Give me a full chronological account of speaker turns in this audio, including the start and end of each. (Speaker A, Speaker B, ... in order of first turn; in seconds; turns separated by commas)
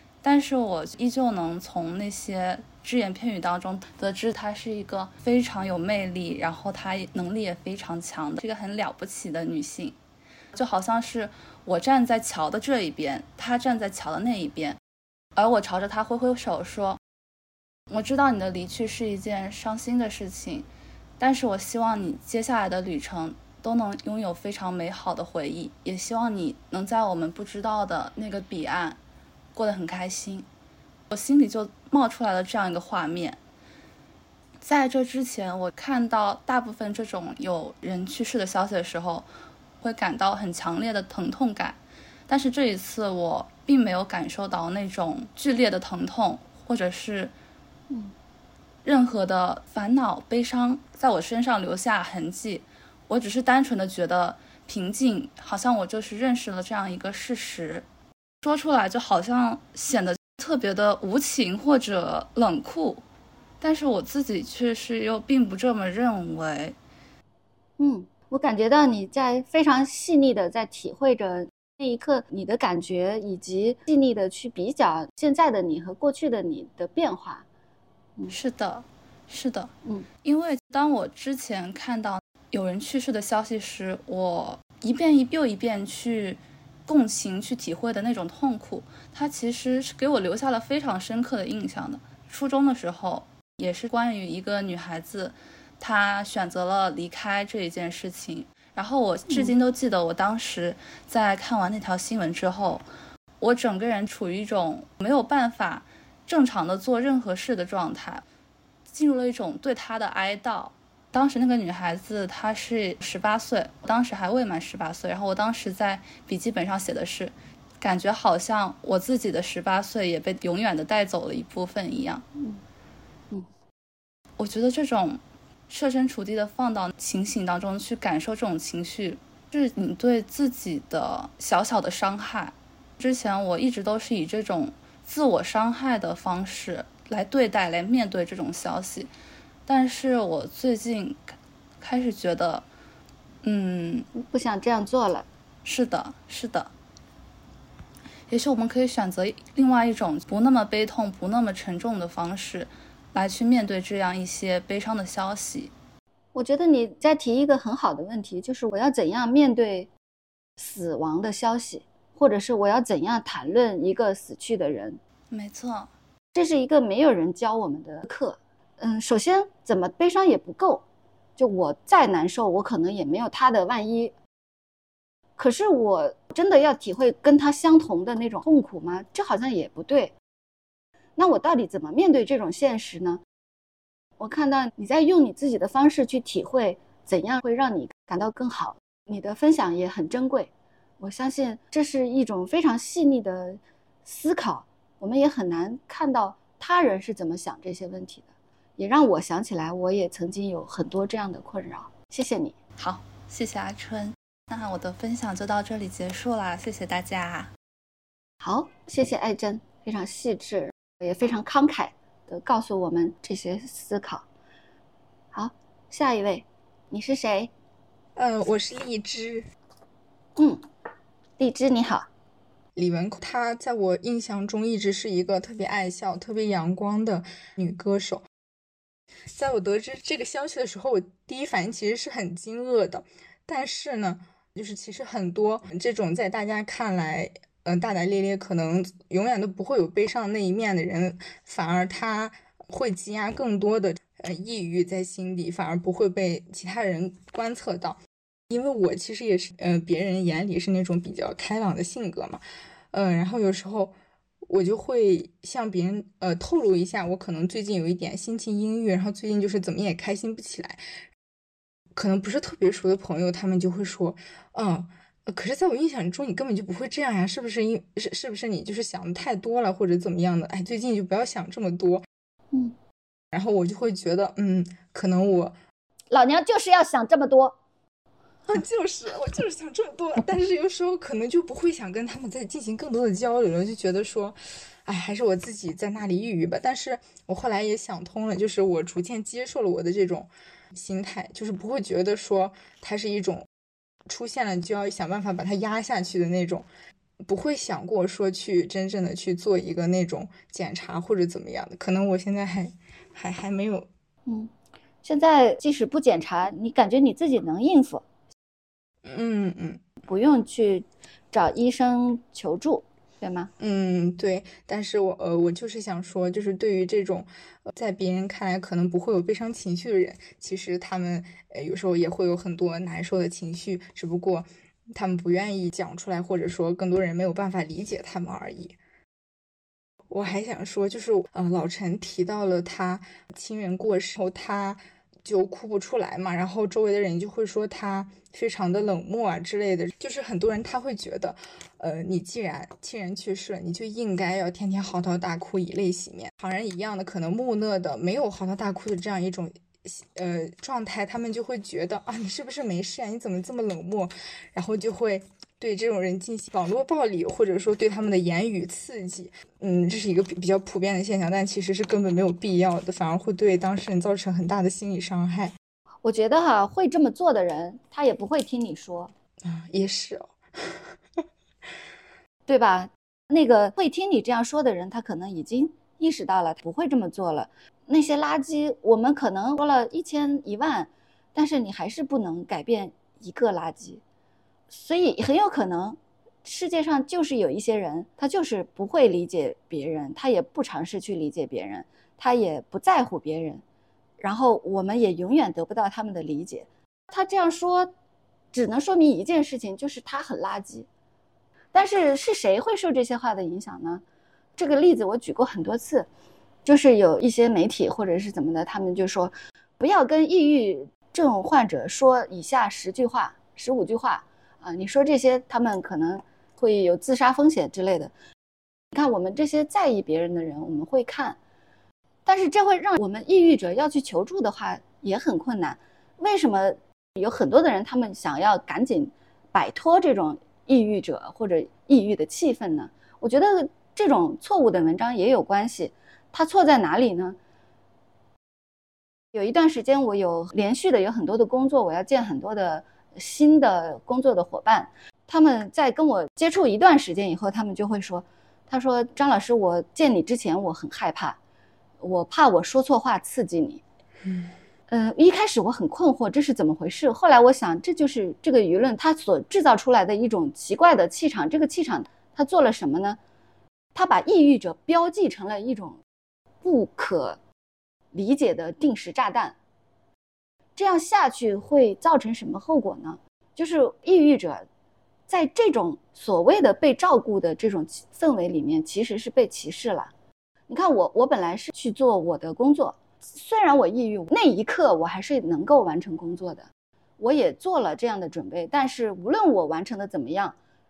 Speaker A: 0.2-10.0, Speaker A: 10.5-14.8, Speaker A: 15.4-17.0, Speaker A: 17.9-20.7, Speaker A: 21.2-29.0, Speaker A: 29.5-30.5, Speaker A: 31.1-33.4, Speaker A: 34.6-39.3, Speaker A: 39.8-47.3, Speaker A: 48.8-57.9, Speaker A: 58.4-63.0, Speaker A: 63.6-66.8, Speaker B: 67.8-77.5, Speaker A: 78.3-79.7, Speaker A: 80.2-102.8, Speaker B: 99.3-99.5, Speaker A: 103.4-108.2, Speaker A: 108.9-122.2, Speaker A: 124.4-139.1, Speaker A: 139.7-142.7, Speaker A: 143.4-144.1, Speaker B: 144.2-145.3, Speaker A: 145.7-146.7, Speaker A: 148.3-155.7, Speaker B: 156.3-159.9, Speaker B: 160.6-165.0, Speaker A: 165.3-165.9, Speaker B: 166.3-170.8, Speaker B: 171.4-174.1, Speaker B: 175.4-180.1, Speaker B: 181.2-183.2, Speaker B: 184.2-198.3, Speaker B: 198.8-202.6, Speaker A: 202.8-207.5, Speaker B: 208.4-214.2, Speaker B: 215.3-217.5, Speaker C: 218.2-219.5, Speaker B: 220.4-220.6, Speaker B: 221.4-222.1, Speaker C: 222.8-228.2, Speaker C: 229.3-248.0, Speaker C: 248.5-253.9, Speaker C: 254.5-260.8, Speaker C: 261.9-272.1, Speaker C: 273.3-275.6, Speaker B: 276.1-277.6, Speaker C: 278.5-293.5, Speaker C: 294.1-296.7, Speaker C: 297.2-303.9, Speaker B: 305.0-308.0, Speaker C: 309.1-309.8, Speaker B: 310.1-313.5, Speaker C: 313.6-328.8, Speaker C: 330.1-365.5, Speaker B: 366.0-369.1, Speaker C: 369.4-370.8, Speaker B: 372.5-384.0, Speaker B: 384.7-393.6, Speaker B: 394.2-397.9, Speaker B: 398.5-400.9, Speaker B: 401.7-404.0, Speaker B: 404.6-406.1, Speaker B: 406.6-418.1, Speaker B: 418.9-421.4, Speaker B: 422.3-437.4, Speaker B: 439.3-451.4, Speaker B: 452.0-453.8, Speaker B: 454.9-463.2, Speaker B: 463.9-466.0, Speaker B: 466.6-467.4, Speaker B: 468.1-469.6, Speaker B: 470.8-474.7, Speaker B: 475.3-480.1, Speaker B: 480.7-486.7, Speaker B: 487.2-490.6